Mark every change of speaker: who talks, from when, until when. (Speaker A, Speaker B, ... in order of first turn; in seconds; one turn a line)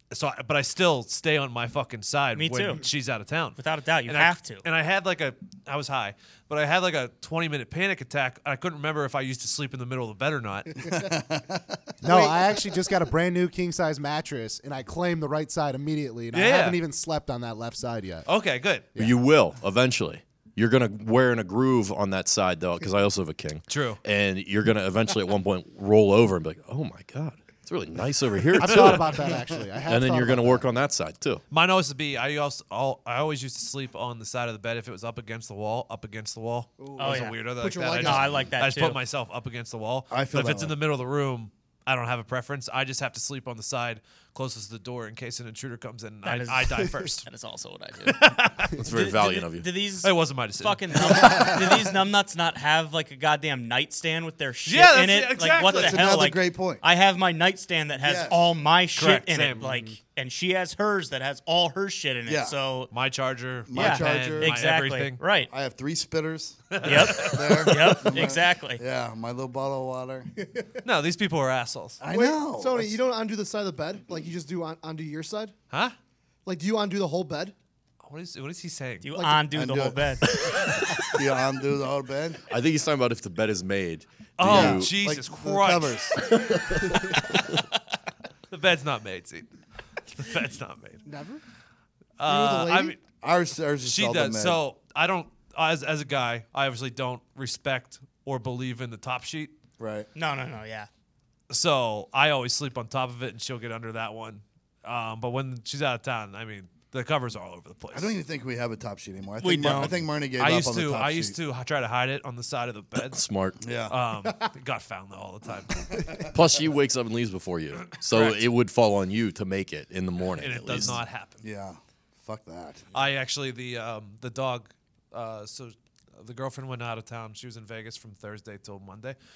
Speaker A: 0.1-10.9
Speaker B: 2.4-2.9
Speaker B: 3.6-4.6
Speaker C: 10.9-11.8
Speaker D: 12.0-18.3
Speaker E: 12.1-12.8
Speaker A: 16.3-16.8
Speaker A: 18.3-18.9
Speaker D: 18.9-19.2
Speaker F: 18.9-29.3
Speaker A: 23.7-24.0
Speaker D: 28.5-30.7
Speaker A: 28.6-29.1
Speaker F: 29.9-31.4
Speaker A: 31.5-47.3
Speaker E: 36.8-38.5
Speaker B: 37.0-39.0
Speaker C: 40.1-40.7
Speaker B: 46.2-48.3
Speaker A: 48.0-48.8
Speaker F: 48.8-49.7
Speaker B: 48.9-62.9
Speaker A: 50.0-51.6
Speaker A: 54.7-56.1
Speaker C: 55.6-56.8
Speaker C: 58.0-58.5
Speaker A: 59.0-59.7
Speaker D: 59.6-59.9
Speaker C: 62.3-62.6
Speaker A: 62.9-65.2
Speaker C: 63.7-64.6
Speaker B: 63.7-65.5
Speaker C: 65.5-70.3
Speaker A: 66.7-67.7
Speaker B: 66.8-68.8
Speaker A: 70.8-72.0
Speaker C: 72.0-73.0
Speaker E: 72.1-75.6
Speaker A: 75.7-76.0
Speaker E: 76.5-77.5
Speaker A: 78.0-79.1
Speaker B: 79.0-80.3
Speaker E: 79.2-79.5
Speaker C: 79.5-80.1
Speaker C: 81.1-82.4
Speaker F: 82.5-85.0
Speaker A: 84.4-86.1
Speaker C: 84.4-86.3
Speaker A: 88.5-89.5
Speaker A: 90.1-91.1
Speaker E: 91.1-91.4
Speaker A: 92.2-93.0
Speaker E: 92.2-93.0
Speaker C: 93.2-94.6
Speaker A: 93.8-99.5
Speaker C: 99.8-100.1
Speaker B: 100.1-100.9
Speaker A: 101.5-108.2
Speaker C: 107.9-111.4
Speaker B: 109.4-110.0
Speaker A: 109.6-113.2
Speaker F: 113.0-113.6
Speaker C: 113.6-114.0
Speaker A: 113.9-116.0
Speaker F: 116.3-121.0
Speaker A: 117.9-118.4
Speaker A: 120.4-121.5
Speaker C: 121.4-122.9
Speaker A: 122.9-129.2